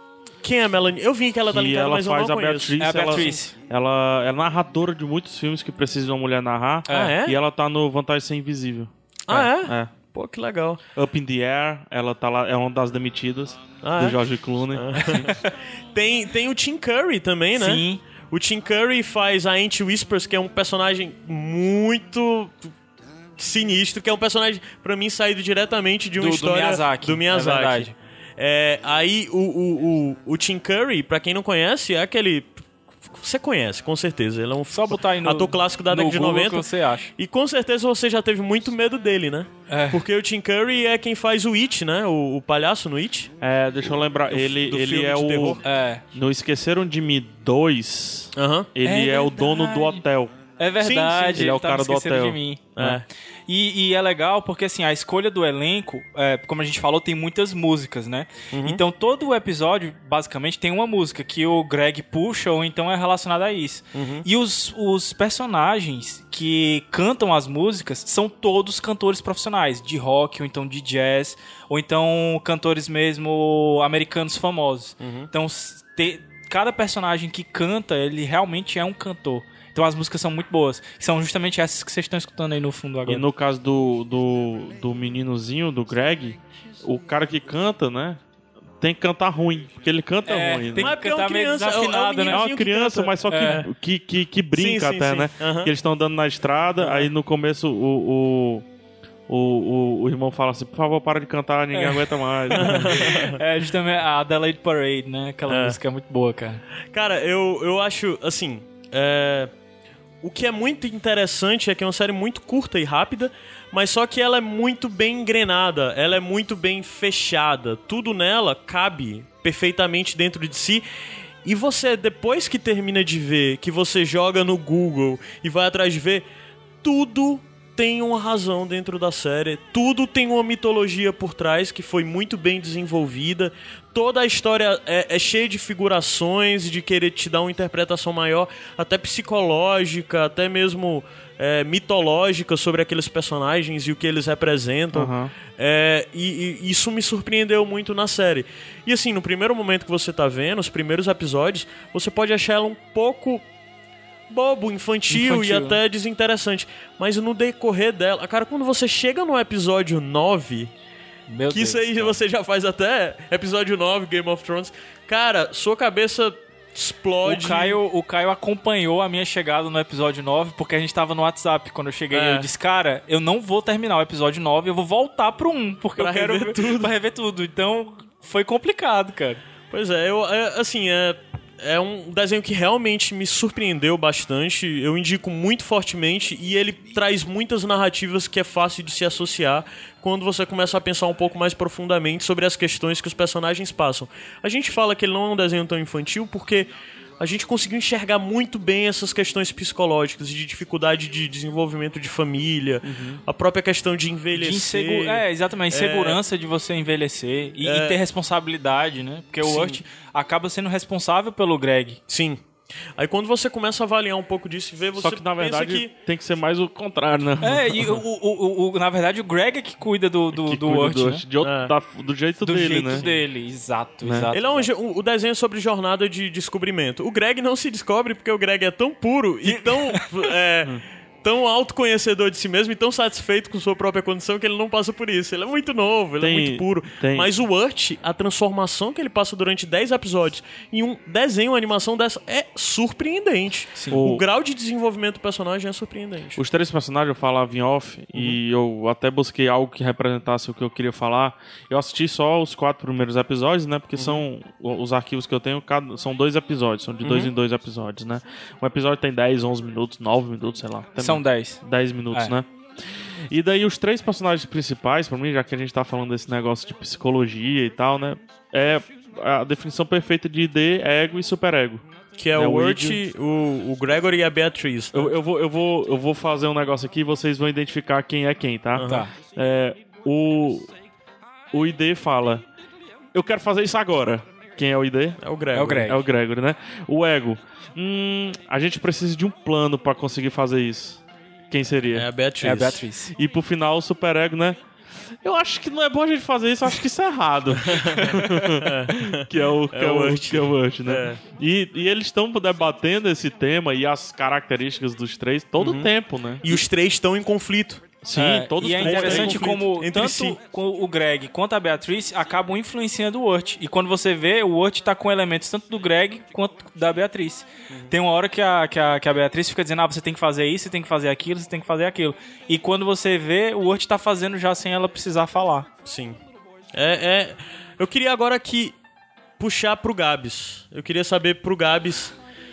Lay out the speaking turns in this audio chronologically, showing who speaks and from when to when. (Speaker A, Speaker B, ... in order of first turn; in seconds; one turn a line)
Speaker A: 0.4-3.4
Speaker B: 1.5-9.9
Speaker C: 2.8-3.5
Speaker C: 6.9-7.1
Speaker A: 6.9-7.4
Speaker A: 9.3-10.8
Speaker B: 11.0-15.3
Speaker A: 13.8-14.2
Speaker A: 14.7-22.7
Speaker C: 17.6-18.0
Speaker A: 23.4-32.6
Speaker C: 26.2-27.9
Speaker A: 33.1-43.3
Speaker C: 34.7-37.1
Speaker C: 39.7-40.0
Speaker B: 43.4-45.6
Speaker A: 44.3-45.6
Speaker C: 45.6-46.0
Speaker B: 46.1-50.3
Speaker A: 48.4-48.7
Speaker C: 48.8-50.0
Speaker C: 50.6-52.6
Speaker A: 50.8-51.5
Speaker B: 51.4-53.0
Speaker A: 52.8-53.1
Speaker C: 53.5-83.2
Speaker A: 58.5-58.8
Speaker A: 63.9-64.3
Speaker A: 75.0-75.3
Speaker B: 83.1-88.2
Speaker B: 88.8-90.9
Speaker C: 90.3-92.4
Speaker A: 90.8-93.7
Speaker B: 92.3-98.7
Speaker C: 93.3-93.7
Speaker A: 94.5-95.7
Speaker B: 99.3-103.3
Speaker C: 101.7-106.6
Speaker A: 102.6-103.4
Speaker A: 105.5-105.8
Speaker A: 106.9-109.5
Speaker A: 110.2-120.8
Speaker A: 121.5-126.3
Speaker A: 126.8-153.4
Speaker B: 144.9-145.3
Speaker A: 154.3-160.7
Speaker C: 155.1-155.8
Speaker C: 161.3-162.2
Speaker A: 161.5-167.8
Speaker C: 167.2-179.4
Speaker A: 172.1-172.5
Speaker A: 176.0-176.9
Speaker A: 179.7-206.2
Speaker B: 202.8-203.2
Speaker C: 204.3-212.0
Speaker A: 207.6-208.0
Speaker A: 209.4-209.8
Speaker A: 212.1-212.4
Speaker A: 213.0-215.9
Speaker B: 215.0-218.0
Speaker C: 217.4-221.2
Speaker B: 220.3-223.1
Speaker A: 221.4-221.7
Speaker C: 222.4-224.7
Speaker B: 224.0-224.3
Speaker A: 224.3-246.4
Speaker C: 229.5-230.1
Speaker B: 236.2-237.3
Speaker C: 243.8-244.0
Speaker B: 243.9-244.2
Speaker B: 246.4-262.5
Speaker A: 254.0-254.2
Speaker A: 257.0-257.3
Speaker C: 261.0-261.6
Speaker B: 263.3-271.8
Speaker A: 272.2-275.1
Speaker B: 272.4-273.0
Speaker B: 274.9-280.7
Speaker A: 278.8-279.1
Speaker C: 278.8-279.1
Speaker B: 281.5-282.4
Speaker B: 283.1-285.2
Speaker A: 285.2-285.9
Speaker C: 285.5-286.0
Speaker B: 285.8-292.1
Speaker A: 291.9-292.8
Speaker C: 292.4-293.1
Speaker B: 293.1-294.6
Speaker B: 295.2-306.6
Speaker A: 297.7-301.2
Speaker A: 305.6-305.9
Speaker A: 306.4-310.4
Speaker B: 308.0-309.6
Speaker C: 308.1-325.7
Speaker A: 325.9-326.2
Speaker A: 326.7-328.8
Speaker A: 329.4-332.1